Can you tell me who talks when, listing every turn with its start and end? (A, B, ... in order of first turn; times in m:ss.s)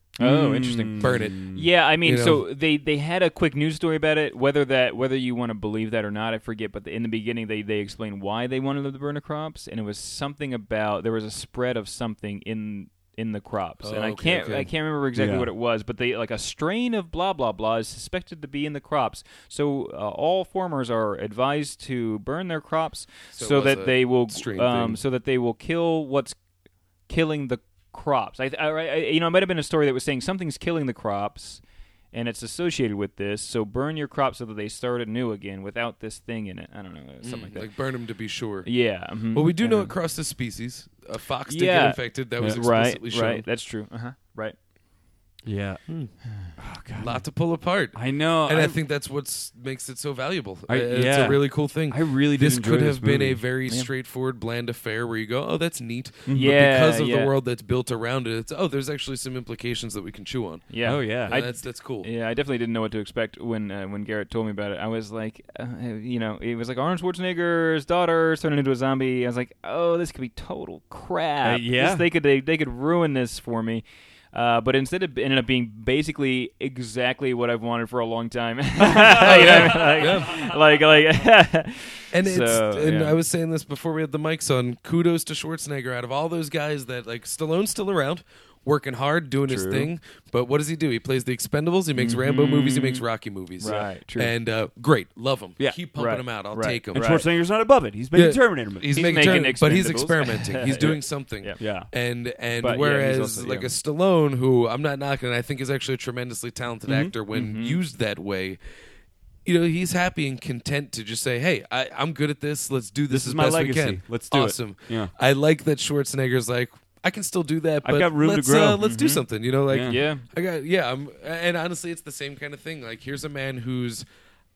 0:00.2-0:26.4 A
0:00.2-0:01.7 B
0:01.0-0:02.4 C
0:13.8-0:14.7 C
0:15.2-0:15.5 B
0:23.3-0:25.0 C
0:27.1-0:37.7 A
0:37.2-0:43.5 C
0:38.6-0:39.9 A
0:41.5-0:44.6 A
0:42.4-0:42.6 B
0:45.4-0:47.4 B
0:45.9-0:46.1 C
0:47.0-1:02.1 C
0:47.9-0:48.8 B
0:50.7-0:53.4 B
0:56.3-0:56.6 B
0:56.3-0:57.3 A
1:00.7-1:23.2 A
1:00.8-1:01.4 B
1:11.4-1:12.0 B
1:18.9-1:19.9 B
1:19.1-1:20.5 C
1:22.1-1:37.2 C
1:29.5-1:29.9 A
1:32.0-1:33.0 A
1:33.6-1:34.3 A
1:36.0-1:37.3 A
1:36.9-1:39.6 B
1:38.1-1:48.6 C
1:38.9-1:41.6 A
1:41.6-1:41.9 B
1:42.6-1:43.7 A
1:46.9-1:47.1 B
1:47.3-1:47.8 A
1:49.4-2:04.0 C
1:53.1-1:55.1 B
1:57.8-1:58.8 B
1:58.8-1:59.3 A
1:59.7-2:00.0 B
1:59.8-2:00.2 A